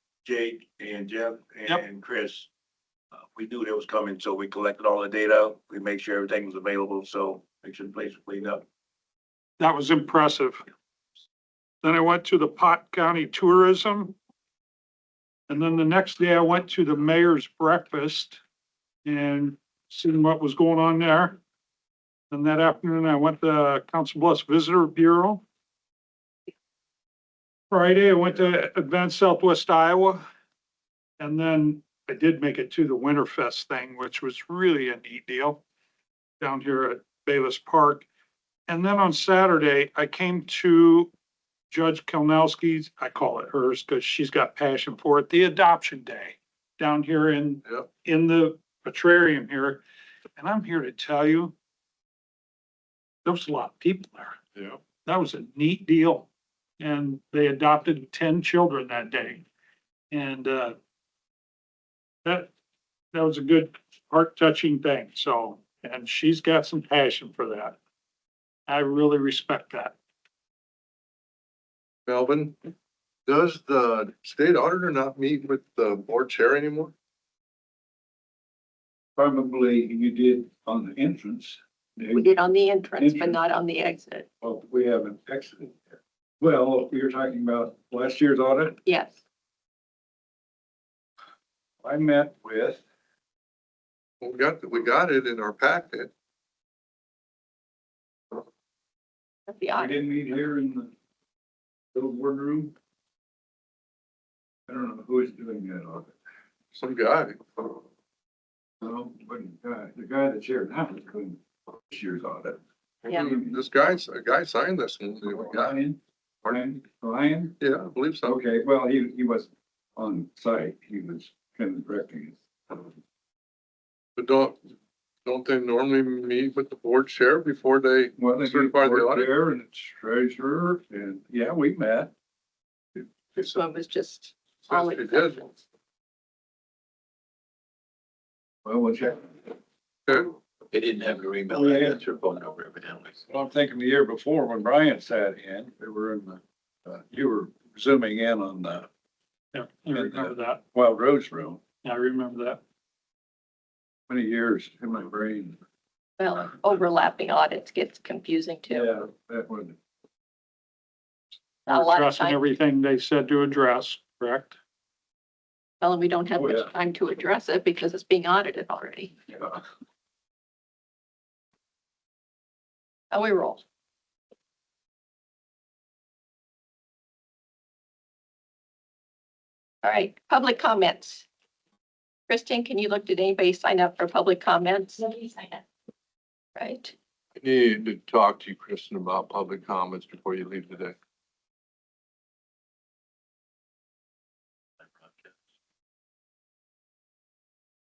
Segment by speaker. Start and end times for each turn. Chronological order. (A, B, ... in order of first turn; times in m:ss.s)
0:00.2-0:02.5 A
0:03.1-0:08.6 A
0:09.6-0:10.6 B
0:11.8-0:14.2 B
0:15.5-0:18.4 B
0:19.0-0:21.4 B
0:22.3-0:25.4 B
0:27.7-0:30.2 B
0:31.2-0:35.6 B
0:36.4-0:38.1 B
0:38.7-0:41.1 B
0:41.7-0:49.8 B
0:50.4-0:51.5 B
0:53.2-0:54.4 B
0:55.0-0:56.3 B
0:56.8-0:59.4 B
1:00.1-1:00.8 B
1:02.2-1:02.5 B
1:03.1-1:07.8 B
1:08.7-1:10.0 B
1:12.1-1:12.6 C
1:13.3-1:16.9 C
1:19.2-1:22.3 D
1:22.1-1:24.3 E
1:22.9-1:23.4 D
1:24.4-1:28.8 D
1:28.9-1:29.2 E
1:31.8-1:32.8 D
1:34.2-1:36.1 C
1:39.5-1:40.0 E
1:39.8-1:40.9 D
1:41.9-1:42.7 D
1:44.7-1:46.1 D
1:46.7-1:47.8 C
1:48.8-1:53.7 D
1:53.1-1:55.8 C
1:55.2-1:57.6 D
1:57.6-1:58.4 C
1:58.2-2:02.9 D
2:04.2-2:04.6 C
2:05.2-2:09.3 C
2:08.2-2:12.1 D
2:13.3-2:15.6 E
2:14.7-2:15.4 C
2:18.6-2:19.3 D
2:20.7-2:23.2 F
2:21.5-2:22.0 D
2:23.3-2:28.9 D
2:29.5-2:30.6 B
2:29.9-2:31.6 D
2:31.8-2:32.6 B
2:34.1-2:35.6 D
2:36.2-2:38.9 E
2:38.7-2:39.8 D
2:41.7-2:44.5 B
2:41.7-2:42.4 E
2:45.8-2:49.2 E
2:46.4-2:46.7 D
2:53.1-2:53.6 E
2:59.8-3:01.2 E
3:02.3-3:05.6 E
3:06.6-3:06.9 E
3:07.4-3:11.0 C